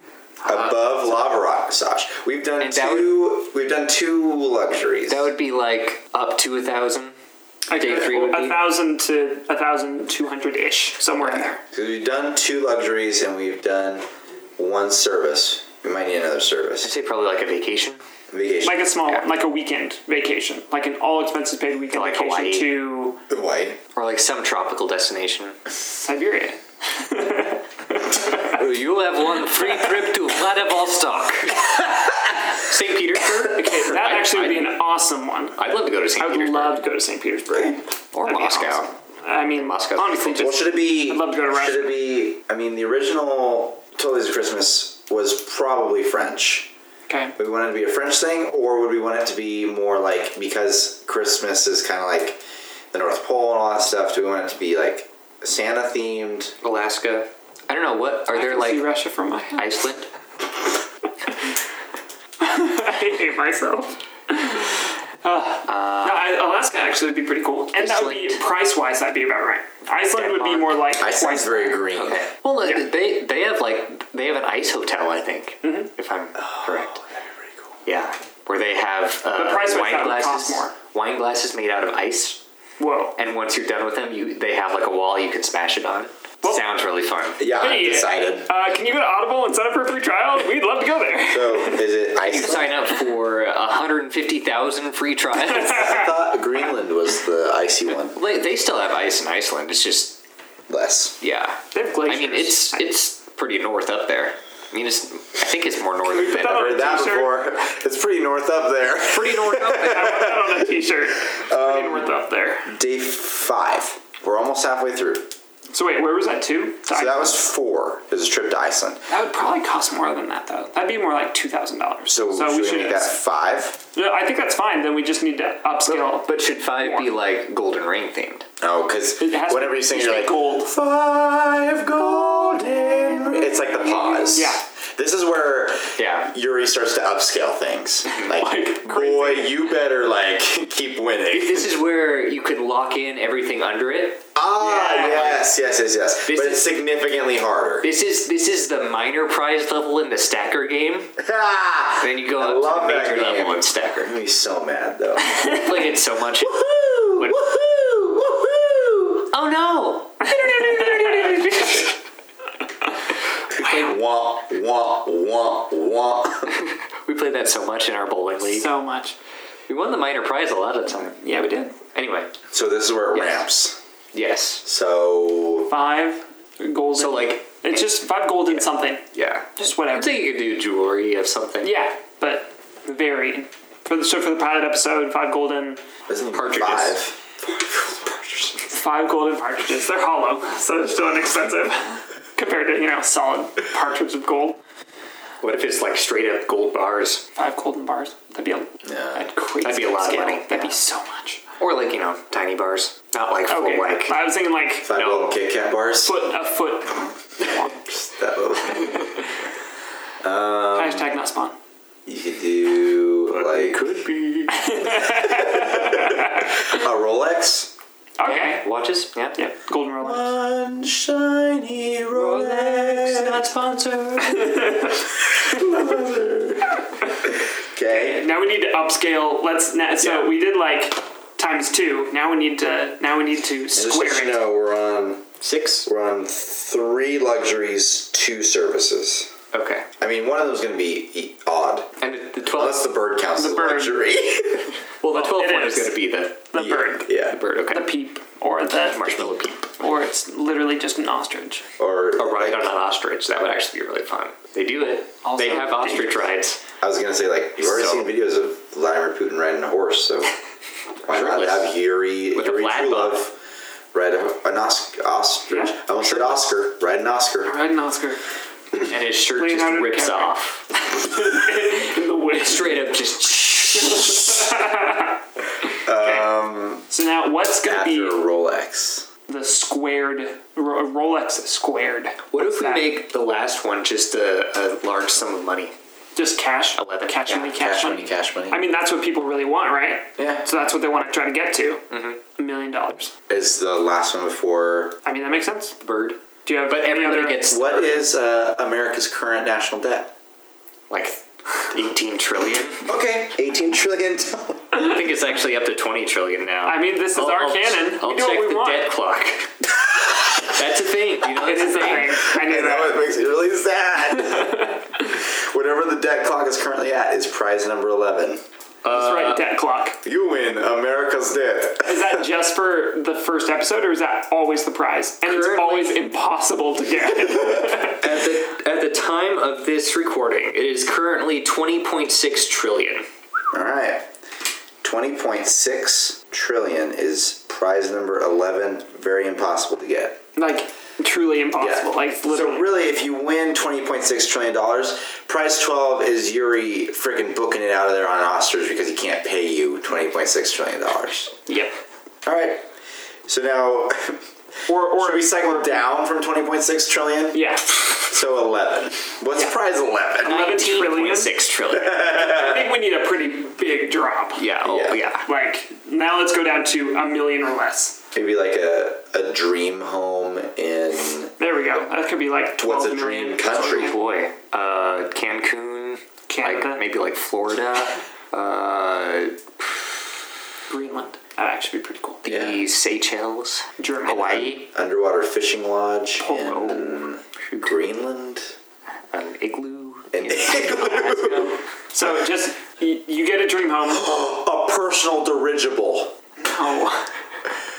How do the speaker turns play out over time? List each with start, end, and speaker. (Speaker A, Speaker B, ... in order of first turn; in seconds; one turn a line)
Speaker A: 0.5-1.2
Speaker B: 0.5-5.3
Speaker A: 2.6-3.1
Speaker A: 5.1-7.2
Speaker C: 7.7-11.6
Speaker A: 7.7-8.6
Speaker A: 11.2-11.6
Speaker B: 11.7-14.1
Speaker B: 14.6-16.9
Speaker A: 16.8-18.0
Speaker B: 18.3-18.9
Speaker C: 18.6-23.2
Speaker A: 21.9-22.7
Speaker B: 23.3-23.8
Speaker A: 23.9-25.6
Speaker C: 26.0-28.5
Speaker A: 28.4-31.7
Speaker A: 32.5-34.7
Speaker C: 33.4-35.6
Speaker A: 35.6-36.8
Speaker C: 36.2-42.0
Speaker A: 38.1-38.9
Speaker A: 39.5-40.6
Speaker B: 40.4-46.7
Speaker C: 47.1-47.3
Speaker B: 47.4-52.4
Speaker B: 52.9-56.5
Speaker A: 56.6-58.9
Speaker C: 58.3-59.7
Speaker A: 59.5-60.1
Speaker C: 62.4-71.8
Speaker A: 65.7-66.3
Speaker A: 67.8-68.4
Speaker A: 69.9-70.8
Speaker B: 71.0-72.3
Speaker A: 72.0-77.0
Speaker C: 75.6-75.9
Speaker B: 76.4-77.5
Speaker A: 77.8-82.4
Speaker C: 79.4-80.7
Speaker C: 82.8-83.2
Speaker A: 83.2-87.4
Speaker B: 87.4-88.5
Speaker C: 87.5-91.9
Speaker B: 91.3-92.7
Speaker A: 92.2-96.0
Speaker C: 95.5-96.1
Speaker B: 95.7-98.2
Speaker A: 98.1-100.2
Speaker B: 100.7-101.2
Speaker A: 101.2-106.6
Speaker C: 101.7-102.8
Speaker C: 106.0-107.4
Speaker B: 106.3-110.7
Speaker A: 109.0-110.1
Speaker C: 109.7-112.7
Speaker B: 111.3-112.1
Speaker B: 112.7-115.3
Speaker C: 115.7-117.4
Speaker B: 116.9-119.0
Speaker C: 119.1-123.2
Speaker B: 122.1-123.8
Speaker C: 123.9-127.1
Speaker A: 125.9-128.5
Speaker B: 128.6-141.7
Speaker C: 129.2-130.7
Speaker C: 134.2-134.6
Speaker A: 136.0-136.3
Speaker C: 138.2-139.5
Speaker A: 141.3-145.5
Speaker B: 144.3-147.9
Speaker C: 144.8-145.2
Speaker A: 146.2-146.6
Speaker A: 147.8-151.1
Speaker B: 151.2-155.6
Speaker A: 152.0-154.1
Speaker A: 155.3-156.6
Speaker B: 156.5-159.3
Speaker A: 157.1-157.4
Speaker A: 159.3-160.2
Speaker C: 160.2-161.9
Speaker B: 163.5-166.6
Speaker A: 166.6-168.7
Speaker C: 168.5-169.2
Speaker A: 169.7-171.2
Speaker C: 171.2-171.8
Speaker A: 171.9-172.3
Speaker B: 172.5-173.8
Speaker A: 173.2-173.5
Speaker A: 174.1-174.6
Speaker B: 174.7-175.7
Speaker C: 175.7-179.1
Speaker A: 177.0-177.9
Speaker A: 178.5-181.7
Speaker C: 179.6-180.2
Speaker C: 181.6-185.8
Speaker B: 186.1-188.6
Speaker A: 186.3-187.0
Speaker C: 188.7-194.6
Speaker A: 195.4-197.2
Speaker C: 197.4-201.4
Speaker B: 198.8-199.3
Speaker A: 199.6-200.8
Speaker A: 201.6-204.2
Speaker C: 203.5-204.9
Speaker B: 204.8-206.2
Speaker A: 204.9-205.4
Speaker C: 206.0-207.8
Speaker B: 207.9-209.2
Speaker B: 210.2-211.1
Speaker C: 210.7-211.6
Speaker B: 212.1-213.8
Speaker A: 213.3-214.9
Speaker C: 214.5-216.6
Speaker B: 215.0-217.7
Speaker C: 218.2-218.7
Speaker A: 218.2-219.4
Speaker C: 219.4-220.3
Speaker B: 220.0-223.4
Speaker A: 222.1-224.8
Speaker C: 224.3-224.9
Speaker B: 225.3-228.2
Speaker C: 227.9-234.4
Speaker B: 233.7-235.3
Speaker A: 235.4-235.9
Speaker B: 235.8-239.3
Speaker A: 239.5-239.9
Speaker B: 240.0-241.9
Speaker A: 242.0-242.8
Speaker B: 242.5-244.7
Speaker C: 243.4-244.0
Speaker A: 245.0-246.4
Speaker C: 245.1-246.0
Speaker C: 246.5-247.1
Speaker B: 246.6-247.4
Speaker A: 247.3-247.9
Speaker C: 247.7-249.3
Speaker A: 248.7-249.7
Speaker C: 249.8-251.6
Speaker B: 251.8-252.7
Speaker A: 252.2-256.6
Speaker C: 255.2-256.3
Speaker B: 256.8-260.3
Speaker A: 257.6-258.1
Speaker B: 261.1-263.4
Speaker A: 261.1-261.7
Speaker A: 262.4-263.2
Speaker B: 263.9-267.6
Speaker C: 265.5-265.8
Speaker C: 267.5-268.2
Speaker A: 268.9-270.7
Speaker C: 269.4-272.9
Speaker A: 272.4-274.4
Speaker C: 273.7-275.2
Speaker B: 275.9-276.9
Speaker C: 275.9-276.3
Speaker C: 276.9-278.2
Speaker B: 277.6-279.1
Speaker C: 279.3-283.0
Speaker A: 282.3-285.7
Speaker C: 286.1-293.1
Speaker A: 286.8-287.6
Speaker B: 287.6-288.6
Speaker B: 290.2-290.5
Speaker A: 291.9-292.2
Speaker B: 293.3-295.0
Speaker C: 295.1-295.8
Speaker A: 295.8-298.0
Speaker C: 296.4-297.5
Speaker B: 297.5-300.1
Speaker A: 300.9-302.9
Speaker B: 302.9-304.7
Speaker A: 304.7-309.5
Speaker C: 306.7-308.9
Speaker A: 310.5-312.2
Speaker C: 311.4-313.0
Speaker B: 312.2-318.4
Speaker C: 314.2-314.9
Speaker A: 318.8-319.4
Speaker C: 318.9-320.0
Speaker B: 320.0-322.2
Speaker C: 321.9-328.1
Speaker A: 325.2-326.0
Speaker A: 327.9-333.1
Speaker B: 333.5-334.1
Speaker B: 334.8-340.2
Speaker C: 340.4-342.7
Speaker B: 341.6-351.4
Speaker C: 351.5-351.7
Speaker B: 352.2-352.7
Speaker B: 353.3-354.2
Speaker C: 354.7-355.9
Speaker B: 355.0-360.4
Speaker C: 357.3-357.8
Speaker C: 360.2-364.5
Speaker A: 360.2-362.1
Speaker B: 361.8-362.7
Speaker A: 364.4-365.3
Speaker B: 364.6-365.0
Speaker C: 365.2-368.0
Speaker B: 368.1-371.3
Speaker C: 371.4-374.0
Speaker B: 372.6-373.9
Speaker A: 373.6-380.1
Speaker C: 376.3-376.9
Speaker C: 380.7-382.2
Speaker A: 382.2-384.7
Speaker B: 382.3-382.6
Speaker C: 383.8-384.5
Speaker B: 384.1-388.6
Speaker C: 386.2-387.0
Speaker A: 387.5-387.7
Speaker A: 389.1-391.6
Speaker B: 390.1-391.6
Speaker C: 391.9-394.1
Speaker B: 393.9-396.1
Speaker C: 396.4-397.1